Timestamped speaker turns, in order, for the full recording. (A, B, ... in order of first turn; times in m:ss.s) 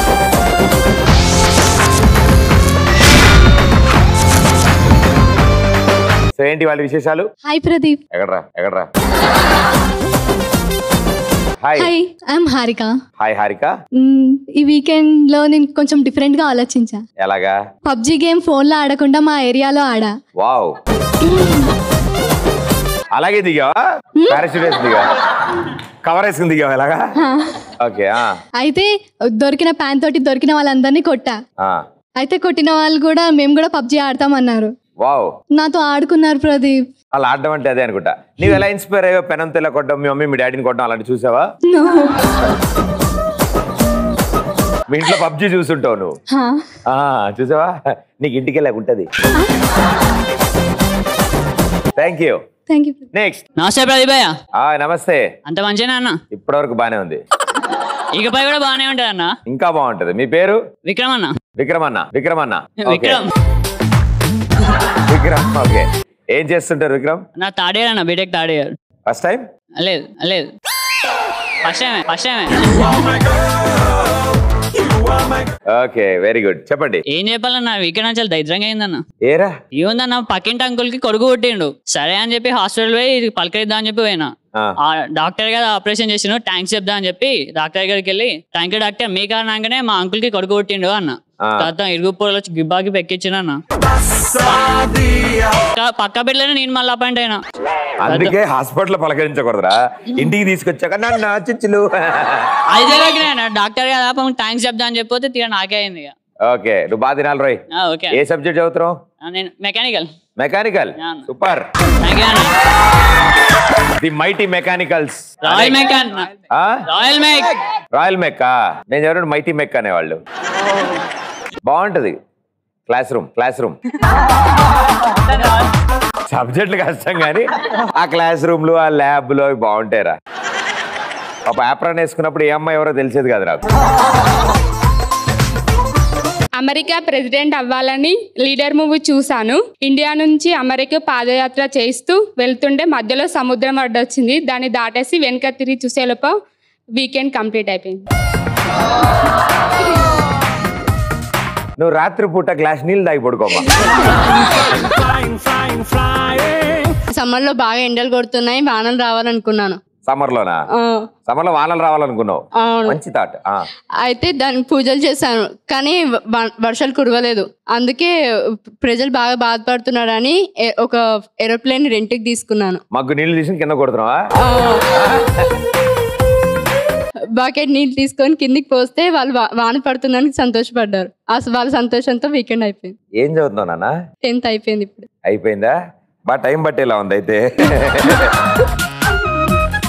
0:06.4-0:07.3 A
0:07.5-0:08.0 B
0:08.1-0:08.9 A
0:11.6-0:11.9 A
0:11.8-0:12.9 B
0:13.2-0:13.7 A
0:14.0-0:17.0 B
0:17.2-0:17.6 A
0:17.9-0:20.1 B
0:20.4-0:20.8 A
0:23.1-0:23.8 A
0:24.3-0:25.1 A
0:26.0-0:27.0 A
0:27.8-0:28.3 A
0:28.6-0:31.4 B
0:32.2-0:34.7 B
0:35.6-0:36.8 B
0:37.2-0:41.4 A
0:44.9-0:46.1 A
0:46.9-0:49.1 A
0:52.0-0:52.4 A
0:53.1-0:53.4 A
0:53.6-0:54.3 C
0:54.6-0:55.2 A
0:55.5-0:56.2 C
0:56.3-0:57.2 A
0:58.1-0:59.3 C
0:59.5-1:00.6 A
1:00.8-1:01.4 C
1:01.6-1:03.2 A
1:02.9-1:03.3 C
1:05.1-1:07.2 A
1:07.4-1:08.7 C
1:09.1-1:09.4 A
1:09.8-1:10.5 C
1:11.6-1:12.5 C
1:15.7-1:17.0 A
1:17.1-1:19.0 C
1:19.2-1:19.5 A
1:19.7-1:24.3 C
1:24.8-1:33.6 C
1:31.4-1:31.7 A
1:35.8-1:37.4 C
1:38.0-1:42.5 A
1:38.1-1:38.3 C
1:42.7-1:46.1 C
1:46.5-1:49.0 A
1:47.7-1:48.2 C
1:49.2-1:50.1 C
1:50.4-1:51.6 A
1:51.0-1:51.2 C
1:52.0-1:52.5 C
1:54.0-1:55.8 A
1:55.5-1:56.3 C
1:56.5-1:56.8 A
1:56.9-1:57.5 C
1:57.9-2:00.2 A
2:01.6-2:02.2 A
2:02.9-2:03.8 A
2:06.3-2:10.2 A
2:11.5-2:13.6 A
2:16.6-2:26.3 D
2:27.0-2:28.0 D
2:31.8-2:33.7 A
2:37.1-2:39.8 B
2:40.0-2:40.6 A
2:40.8-2:41.0 B
2:41.3-2:43.6 A
2:42.6-2:43.0 B
2:44.0-2:52.8 B
2:52.9-2:54.2 A
2:54.4-2:54.8 B
2:55.0-2:55.5 A
2:57.3-3:03.0 B
3:03.2-3:03.9 A
3:04.2-3:05.1 B
3:05.2-3:05.7 A
3:06.3-3:08.3 A